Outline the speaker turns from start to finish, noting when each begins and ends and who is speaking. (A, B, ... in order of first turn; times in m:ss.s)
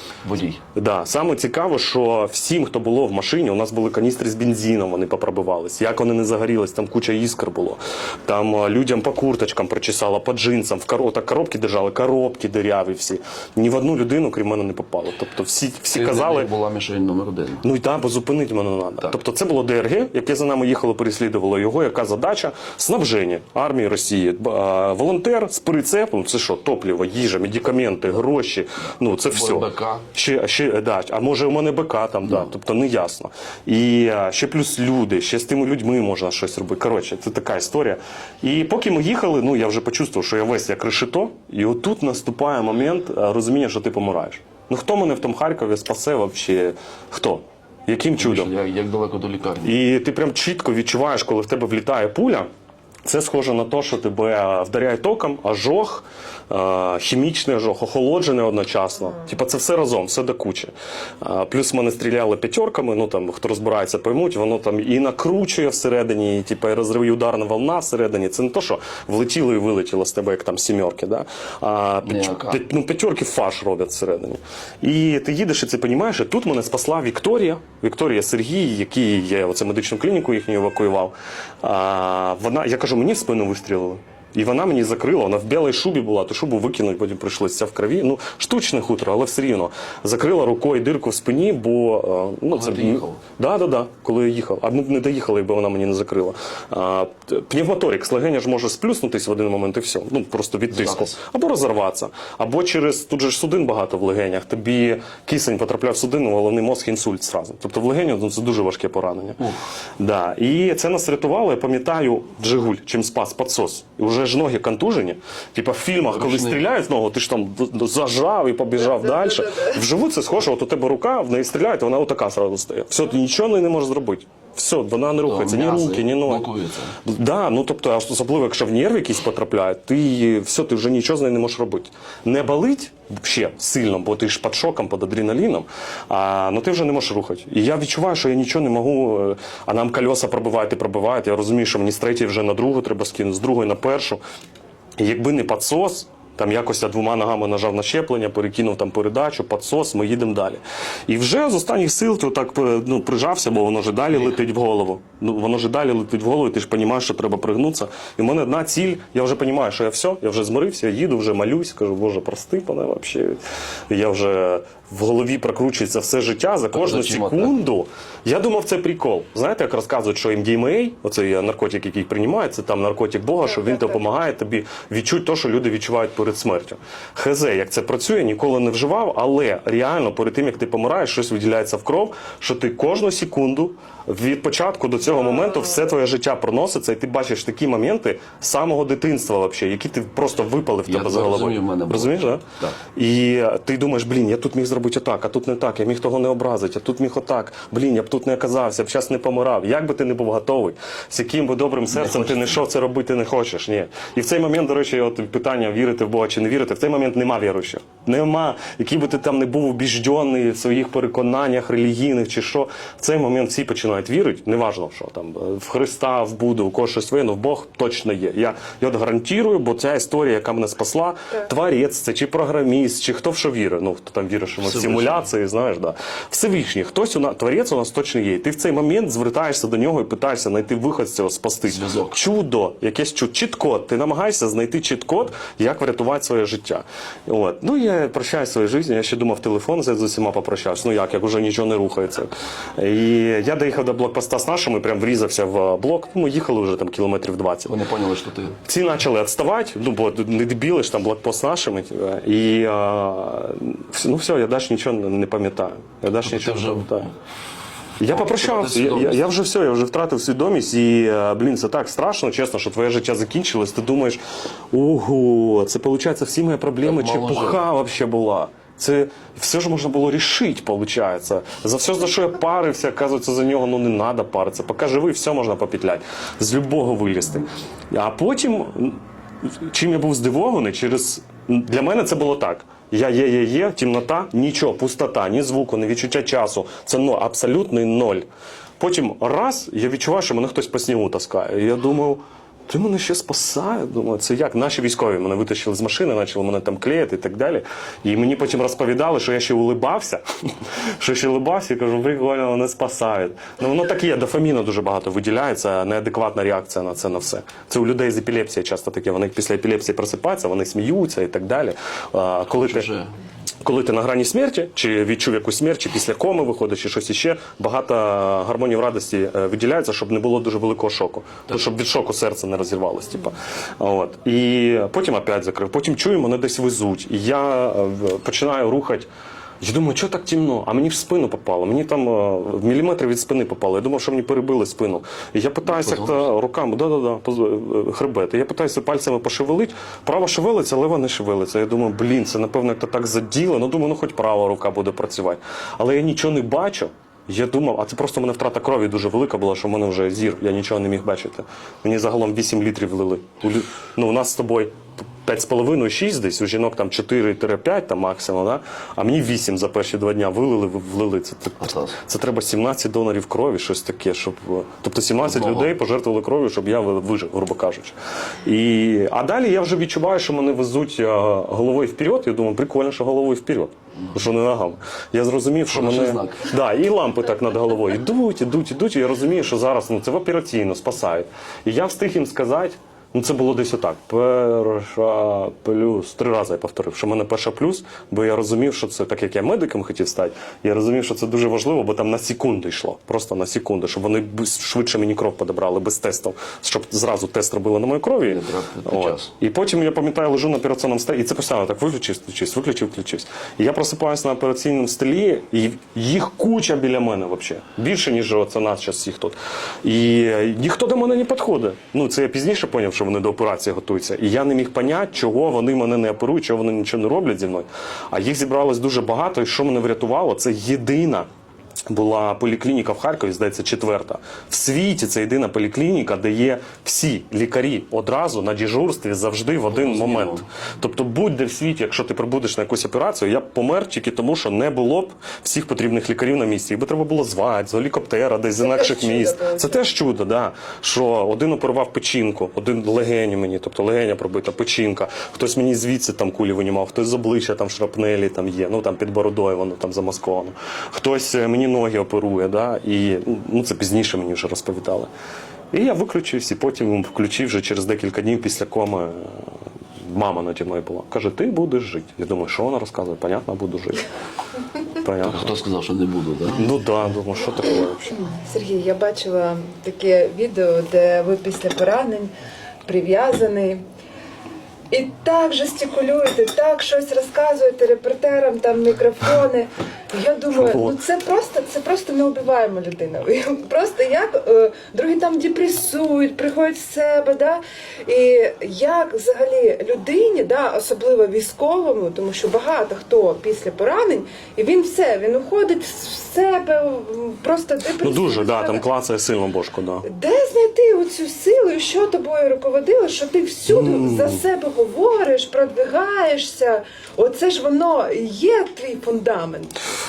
0:00.2-0:00.6 A
0:00.8-0:16.5 B
0:15.9-0:17.6 A
0:17.6-0:48.5 B
0:29.2-0:30.0 A
0:32.2-0:32.5 A
0:48.2-0:49.7 A
0:49.6-0:52.5 B
0:53.0-1:49.4 B
1:12.0-1:12.6 A
1:32.5-1:33.2 A
1:40.7-1:41.1 A
1:50.0-2:06.5 B
1:56.1-1:56.7 A
1:58.9-1:59.8 C
2:05.2-2:07.0 A
2:07.0-2:24.2 B
2:25.0-4:07.8 B
2:46.7-2:47.6 A
3:10.9-3:12.8 A
3:21.9-3:22.6 A
3:44.6-3:45.2 A
3:51.7-3:52.2 A
4:07.7-4:08.6 A
4:08.6-4:17.1 B
4:16.2-4:17.0 A
4:18.0-4:24.2 B
4:18.1-4:19.2 A
4:24.7-4:39.0 B
4:26.8-4:27.6 A
4:39.6-4:48.2 B
4:48.8-5:00.2 B
5:00.8-5:12.9 B
5:12.6-5:13.1 A
5:13.6-5:29.1 B
5:29.6-7:01.3 B
5:35.7-5:36.3 A
6:01.6-6:02.0 A
6:05.2-6:05.8 A
6:15.7-6:16.5 A
6:38.3-6:39.3 A
7:01.9-7:35.1 B
7:09.7-7:10.5 A
7:18.6-7:19.9 C
7:35.7-7:39.4 B
7:40.0-7:44.0 B
7:44.9-7:45.5 B
7:45.2-7:46.7 A
7:46.6-7:48.2 B
7:48.2-7:52.3 C
7:52.8-7:53.8 C
7:54.9-8:18.8 C
8:00.5-8:01.0 B
8:18.0-8:20.1 B
8:20.0-8:29.7 C
8:23.7-8:24.4 B